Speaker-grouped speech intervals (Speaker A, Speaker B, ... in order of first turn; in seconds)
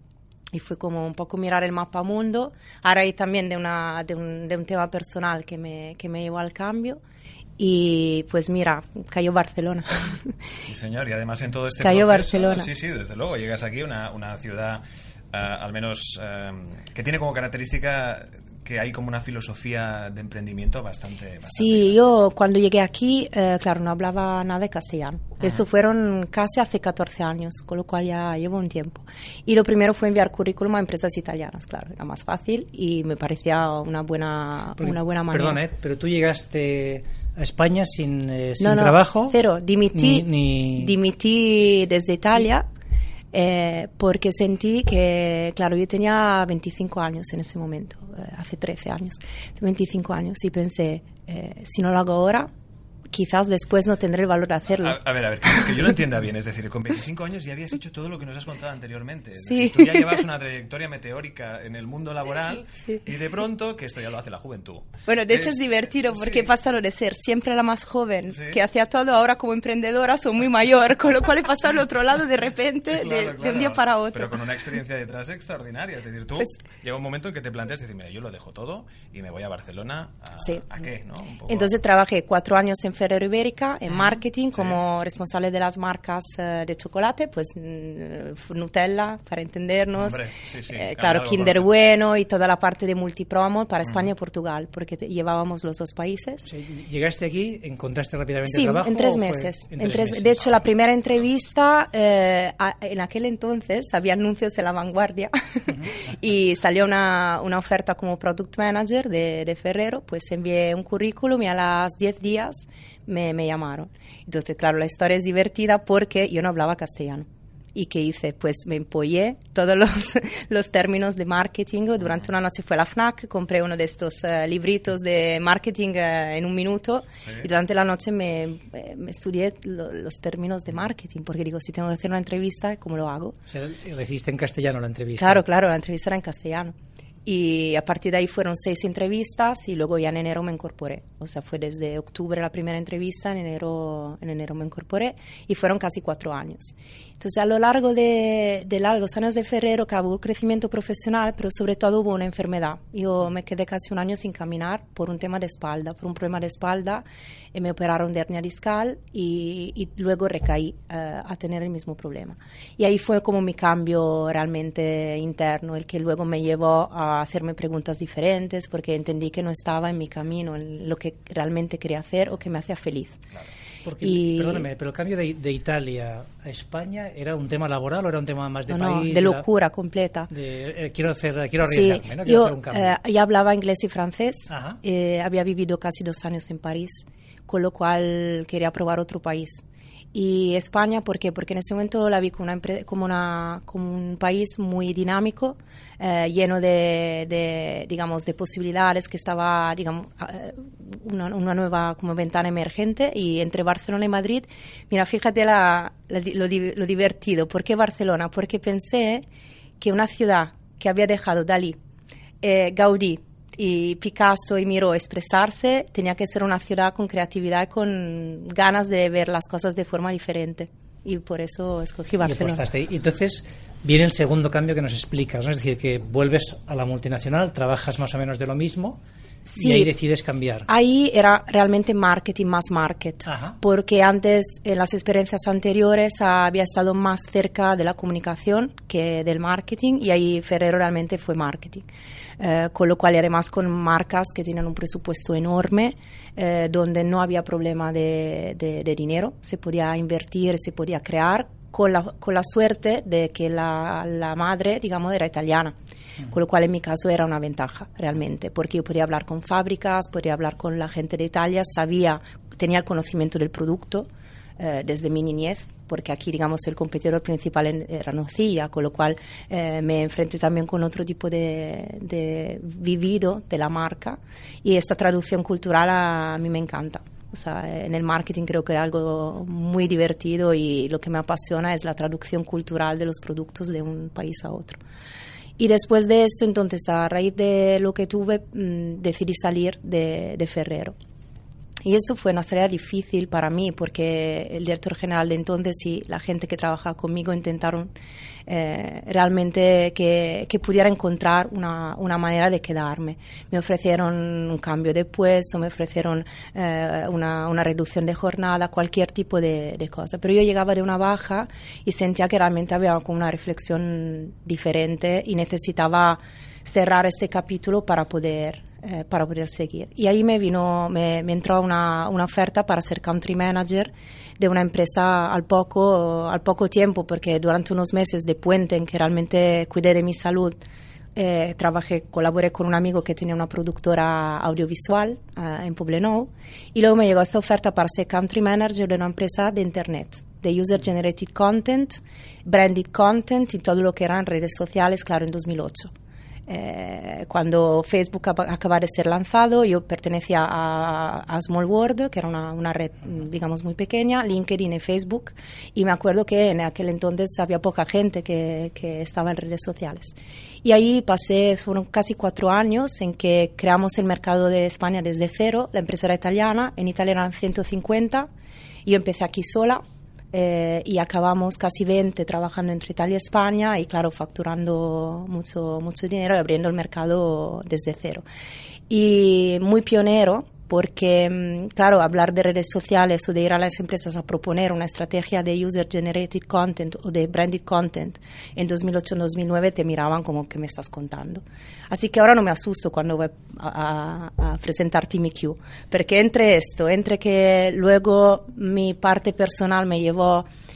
Speaker A: 0.5-7.0, 7.6-10.4, 11.8-12.7, 21.4-35.6, 38.6-42.7, 43.3-52.5, 53.1-55.0, 59.5-60.2, 65.1-74.4, 81.5-96.5, 98.5-133.3, 135.2-136.8, 137.2-173.2, 174.0-174.7, 178.7-180.3, 181.6-189.6, 190.1-209.2, 209.8-211.8, 212.4-222.7, 229.4-229.9, 230.7-241.8, 242.4-264.1, 264.6-284.8, 285.6-290.9, 291.8-297.9, 298.5-330.6, 331.1-345.9, 346.5-368.3, 368.8-378.2, 378.9-400.5
Speaker B: 10.6-22.0, 54.7-66.5, 68.3-68.6, 72.9-81.8, 84.5-84.8, 90.0-91.7, 127.2-127.5
Speaker C: 34.8-39.4, 39.9-40.9, 96.5-100.5, 133.5-135.4, 173.8-179.4, 180.3-183.0, 184.5-184.8, 222.2-229.0, 229.6-230.7, 233.2-233.6